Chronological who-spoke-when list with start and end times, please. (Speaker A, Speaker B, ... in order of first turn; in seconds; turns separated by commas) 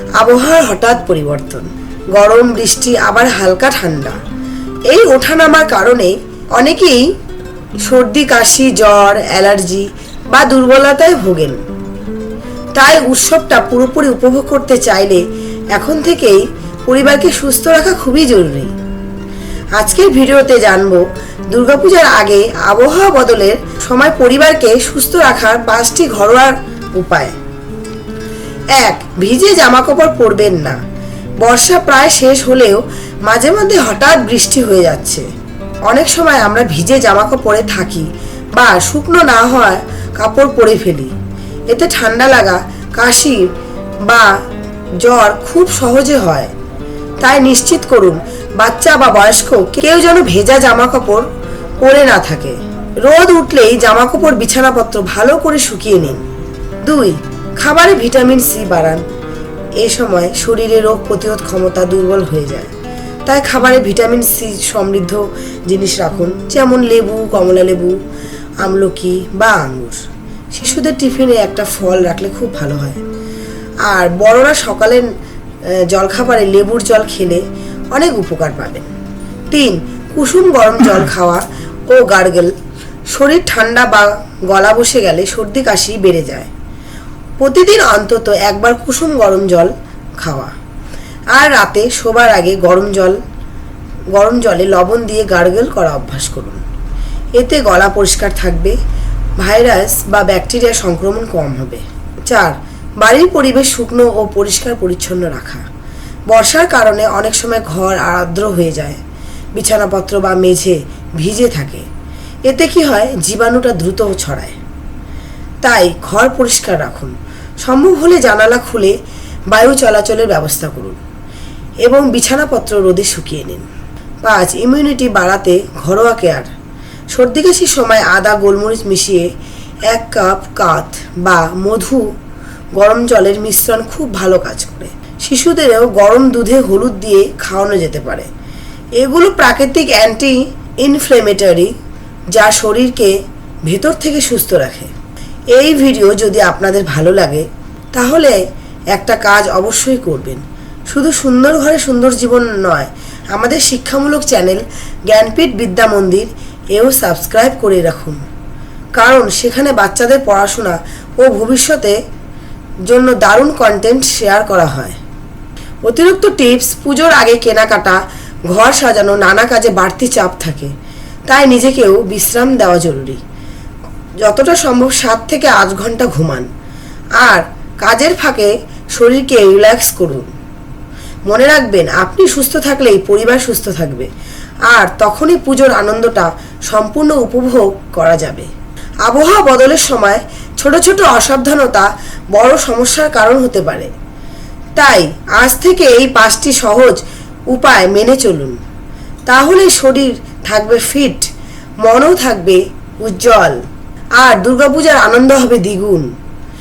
Speaker A: 0.2-4.2, Speaker A: 4.9-7.1, Speaker A: 7.8-11.6, Speaker A: 12.8-18.7, Speaker A: 19.8-27.4, Speaker A: 28.8-30.8, Speaker A: 31.4-35.3, Speaker A: 35.9-41.1, Speaker A: 41.7-43.4, Speaker A: 44.1-44.3, Speaker A: 45.0-46.5, Speaker A: 47.2-51.3, Speaker A: 51.8-56.2, Speaker A: 56.9-59.0, Speaker A: 59.8-62.7, Speaker A: 63.3-68.0, Speaker A: 68.6-73.0, Speaker A: 73.9-75.1, Speaker A: 75.7-78.9, Speaker A: 79.5-82.5, Speaker A: 83.1-86.5, Speaker A: 87.4-90.5, Speaker A: 91.3-93.2, Speaker A: 94.2-96.7, Speaker A: 97.4-98.8, Speaker A: 99.4-105.7, Speaker A: 106.3-109.0, Speaker A: 109.5-111.9, Speaker A: 112.5-114.6, Speaker A: 115.6-119.0, Speaker A: 119.5-121.0, Speaker A: 121.8-123.7, Speaker A: 124.2-126.5, Speaker A: 127.1-129.3, Speaker A: 129.9-132.1, Speaker A: 132.8-138.3, Speaker A: 139.0-141.7, Speaker A: 142.3-144.9, Speaker A: 145.5-148.4, Speaker A: 148.9-158.2, Speaker A: 159.0-162.0, Speaker A: 162.9-165.0, Speaker A: 165.9-170.7, Speaker A: 171.3-173.2, Speaker A: 174.2-176.5, Speaker A: 177.2-180.3, Speaker A: 181.3-184.1, Speaker A: 184.7-188.5, Speaker A: 189.1-193.9, Speaker A: 194.8-198.6, Speaker A: 199.3-201.3, Speaker A: 201.8-203.6, Speaker A: 204.2-206.1